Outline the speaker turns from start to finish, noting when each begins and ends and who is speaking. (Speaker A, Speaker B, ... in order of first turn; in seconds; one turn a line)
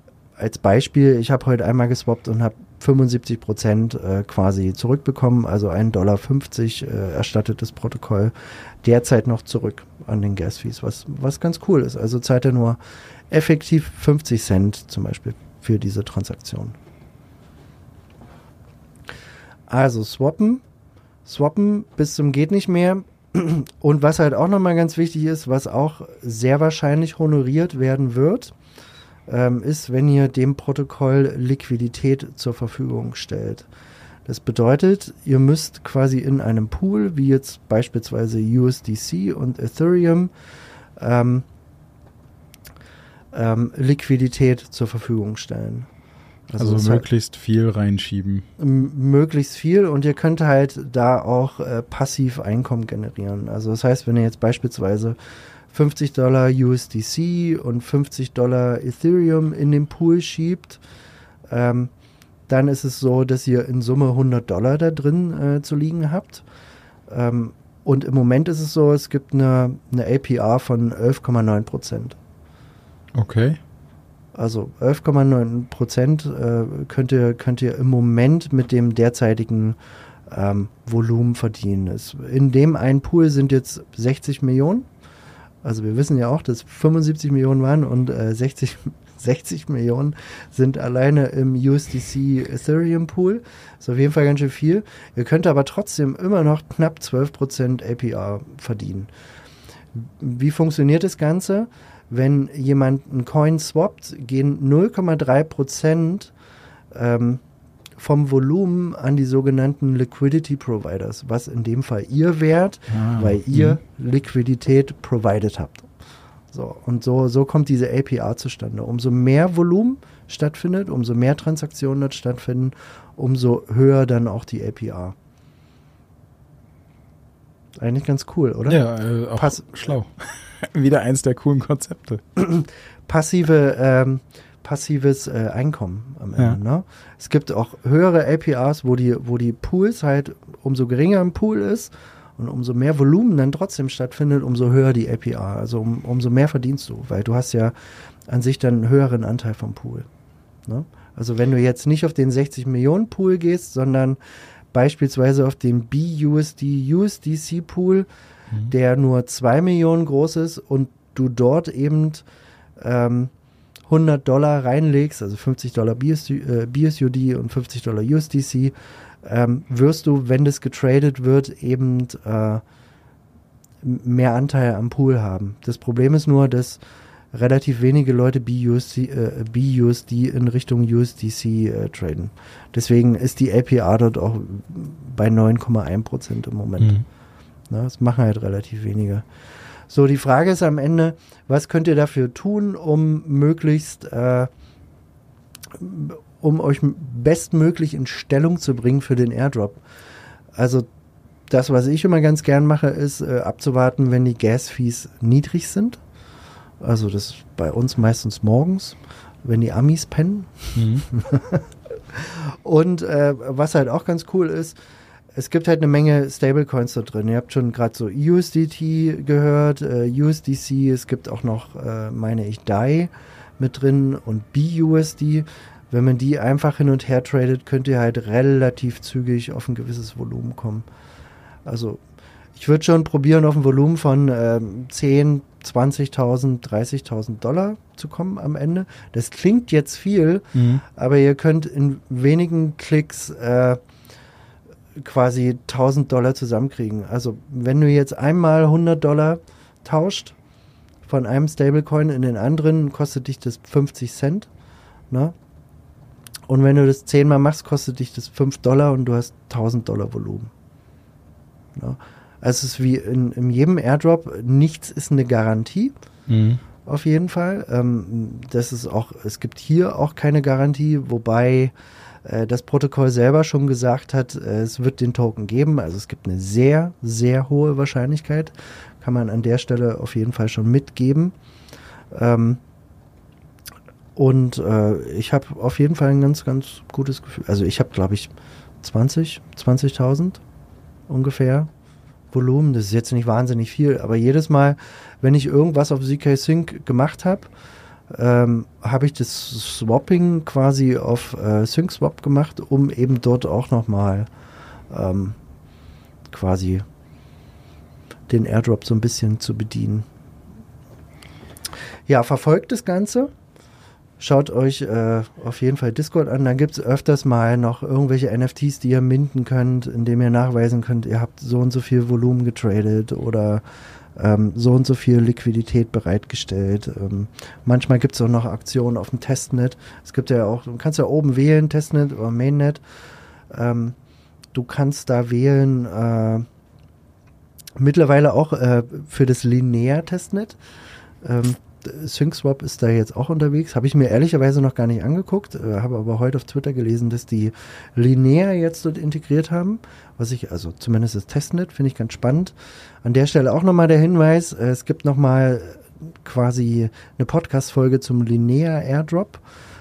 Speaker A: 0.4-16.8
Speaker A: 19.7-20.6
Speaker A: 21.2-28.5
Speaker A: 29.3-33.7
Speaker A: 34.2-40.3
Speaker A: 41.0-41.5
Speaker A: 43.3-45.9
Speaker A: 46.5-47.1
Speaker B: 46.6-48.5
Speaker A: 48.6-55.2
Speaker A: 55.7-60.8
Speaker A: 61.5-61.9
Speaker A: 62.5-66.5
Speaker A: 67.1-72.2
Speaker B: 73.2-73.6
Speaker A: 74.3-84.9
Speaker A: 85.6-99.1
Speaker A: 100.0-106.3
Speaker A: 106.9-107.4
Speaker A: 108.0-115.9
Speaker B: 112.9-113.8
Speaker A: 116.5-125.2
Speaker A: 127.8-128.8
Speaker B: 128.7-132.2
Speaker A: 129.3-129.8
Speaker A: 132.4-147.8
Speaker A: 148.3-150.1
Speaker A: 150.7-154.2
Speaker A: 154.7-158.1
Speaker A: 158.7-162.2
Speaker A: 162.8-163.3
Speaker A: 163.9-172.6
Speaker A: 173.8-176.8
Speaker A: 177.3-187.0
Speaker B: 186.8-187.1
Speaker A: 187.7-189.2
Speaker A: 189.9-194.5
Speaker A: 195.7-199.8
Speaker A: 200.6-200.9
Speaker A: 201.5-206.0
Speaker A: 206.8-214.8
Speaker B: 210.8-211.1
Speaker A: 215.3-230.9
Speaker A: 231.7-232.0
Speaker A: 232.6-243.8
Speaker B: 240.6-240.8
Speaker A: 245.0-250.4
Speaker A: 251.1-254.5
Speaker A: 255.1-255.3
Speaker A: 256.5-260.5
Speaker A: 261.8-265.9
Speaker B: 266.3-266.6
Speaker A: 266.9-271.7
Speaker A: 272.2-281.3
Speaker A: 282.1-282.6
Speaker A: 284.2-290.4
Speaker A: 291.1-291.7
Speaker A: 292.3-297.5
Speaker A: 298.1-304.3
Speaker A: 304.9-305.4
Speaker A: 306.3-306.9
Speaker A: 308.3-310.1
Speaker A: 312.1-313.3
Speaker A: 314.2-323.6
Speaker A: 324.2-332.8
Speaker A: 333.5-334.0
Speaker A: 334.5-336.5
Speaker A: 337.8-340.6
Speaker A: 341.2-359.4